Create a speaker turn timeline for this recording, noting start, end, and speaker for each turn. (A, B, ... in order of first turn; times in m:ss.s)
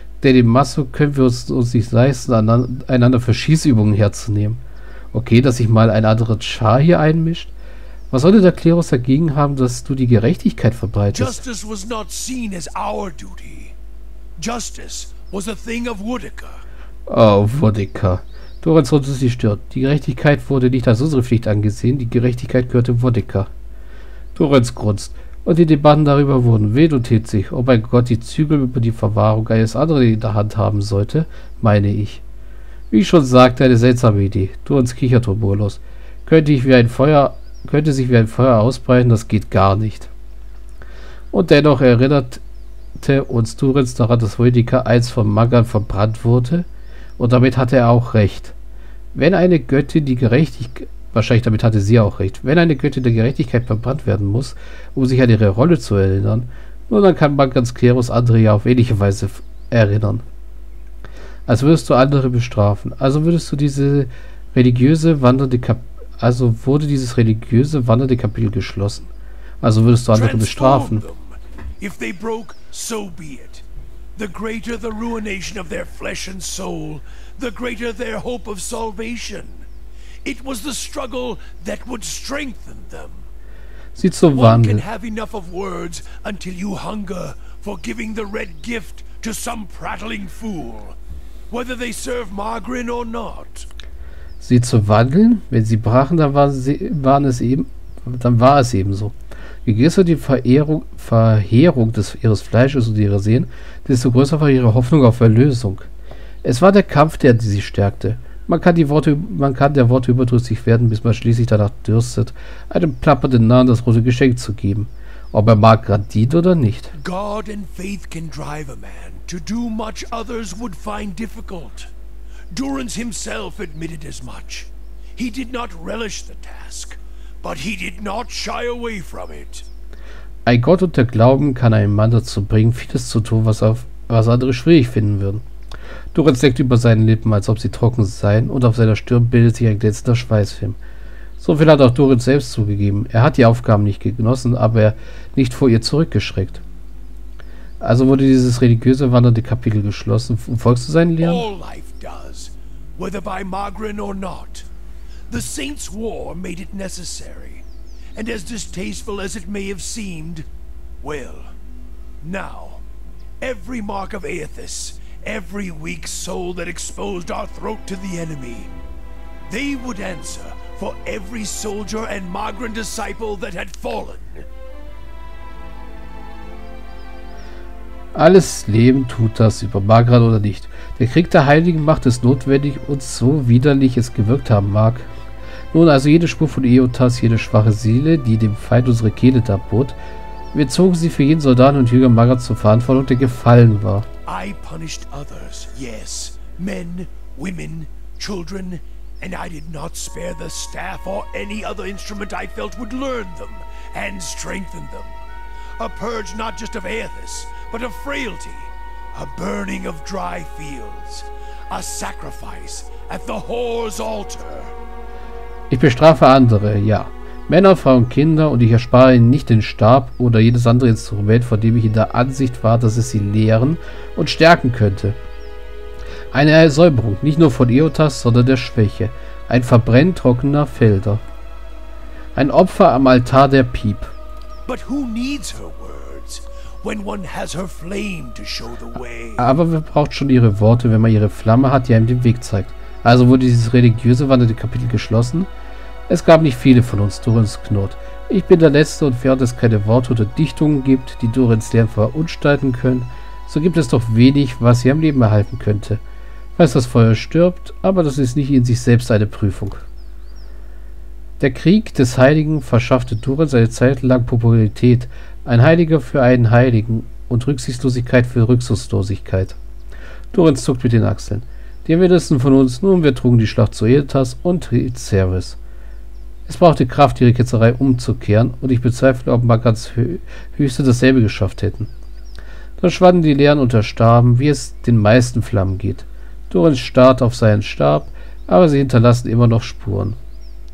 0:00.2-0:07.5 A
0:08.1-0:11.4 A
0:11.1-0:13.8 B
0:14.4-0:16.6 B
0:17.1-0:23.5 A
0:24.4-0:32.2 A
0:32.9-0:40.1 A
0:41.3-0:42.4 A
0:43.0-0:46.7 A
0:47.2-0:48.6 A
0:49.2-1:00.2 A
1:01.5-1:09.1 A
1:09.6-1:11.0 A
1:10.1-1:13.6 B
1:14.2-1:19.7 B
1:20.2-1:23.3 B
1:24.0-1:24.8 A
1:24.3-1:31.0 B
1:31.5-1:33.7 B
1:34.4-1:39.1 A
1:39.6-1:45.9 A
1:46.4-1:56.9 A
1:56.9-2:01.9 B
2:02.5-2:09.7 B
2:10.5-2:15.4 A
2:16.1-2:20.8 A
2:21.4-2:26.6 A
2:27.8-2:31.5 A
2:31.2-2:34.7 B
2:35.3-2:40.5 B
2:41.0-2:41.5 B
2:42.2-2:42.8 B
2:43.4-2:48.7 B
2:49.5-2:54.5 B
2:58.1-3:05.1 A
3:05.7-3:10.0 A
3:10.5-3:14.1 A
3:14.3-3:25.2 B
3:25.8-3:34.8 B
3:35.7-3:45.2 A
3:46.3-3:51.2 A
3:52.4-3:54.2 A
3:54.7-3:59.5 B
3:59.4-4:05.5 A
4:06.1-4:16.0 A
4:16.6-4:19.8 A
4:21.4-4:29.6 A
4:30.3-4:35.6 A
4:36.5-4:41.9 A
4:42.8-4:50.2 A